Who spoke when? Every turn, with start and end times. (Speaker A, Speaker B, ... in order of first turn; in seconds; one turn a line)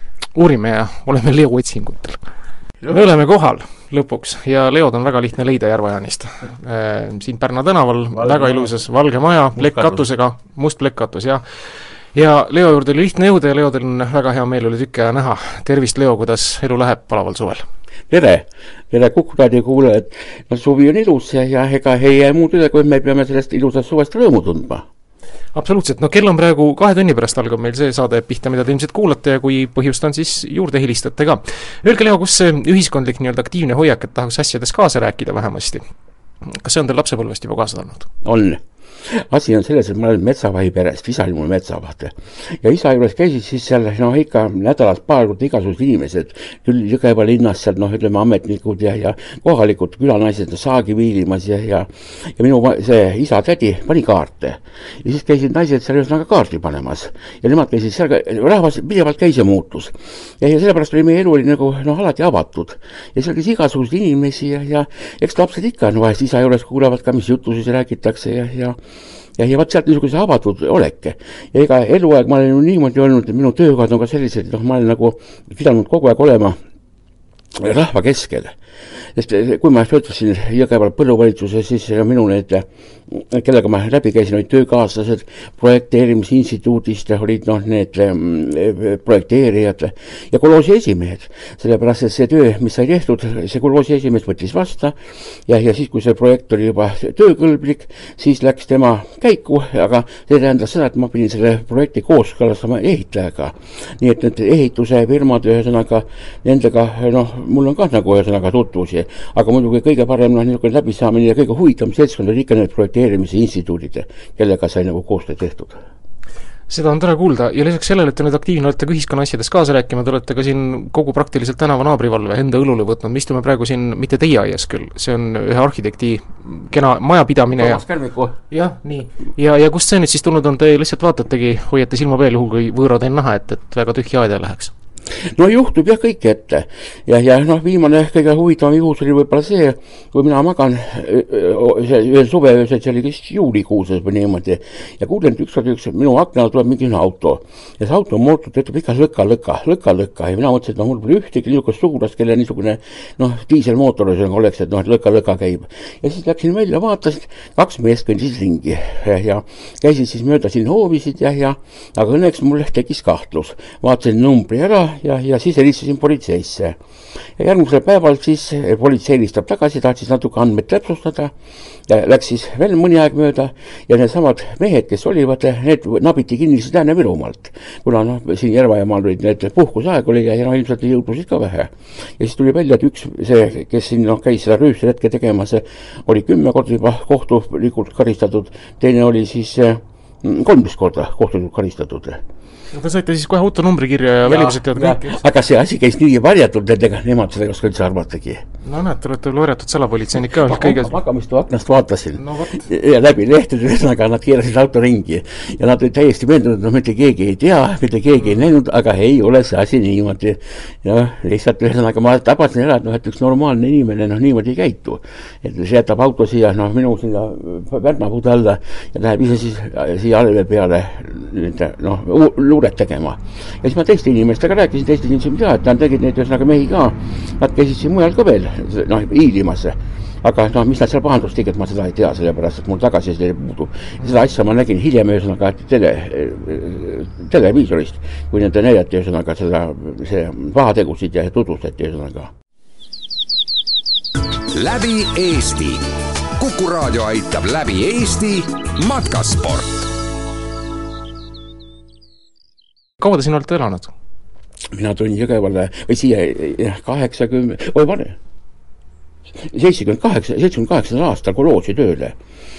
Speaker A: 0.3-2.2
Speaker A: 2.9-17.7
Speaker B: 8.1-8.7
Speaker B: 9.6-9.9
Speaker B: 18.1-24.9
Speaker A: 25.5-35.9
Speaker A: 36.4-38.1
Speaker B: 38.2-68.8
Speaker B: 69.4-76.6
Speaker B: 77.5-78.5
Speaker B: 79.1-115.8
Speaker A: 116.7-127.8
Speaker B: 127.5-128.4
Speaker A: 128.5-134.7
Speaker B: 135.2-166.8
Speaker B: 167.4-171.3
Speaker B: 171.9-192.2
Speaker A: 192.7-195.2
Speaker B: 194.2-198.4
Speaker A: 198.6-201.0
Speaker B: 200.2-242.3
Speaker A: 202.2-202.7
Speaker C: 244.5-245.9
Speaker C: 246.4-249.8
Speaker A: 253.0-253.9
Speaker B: 254.7-258.2
Speaker B: 259.4-262.2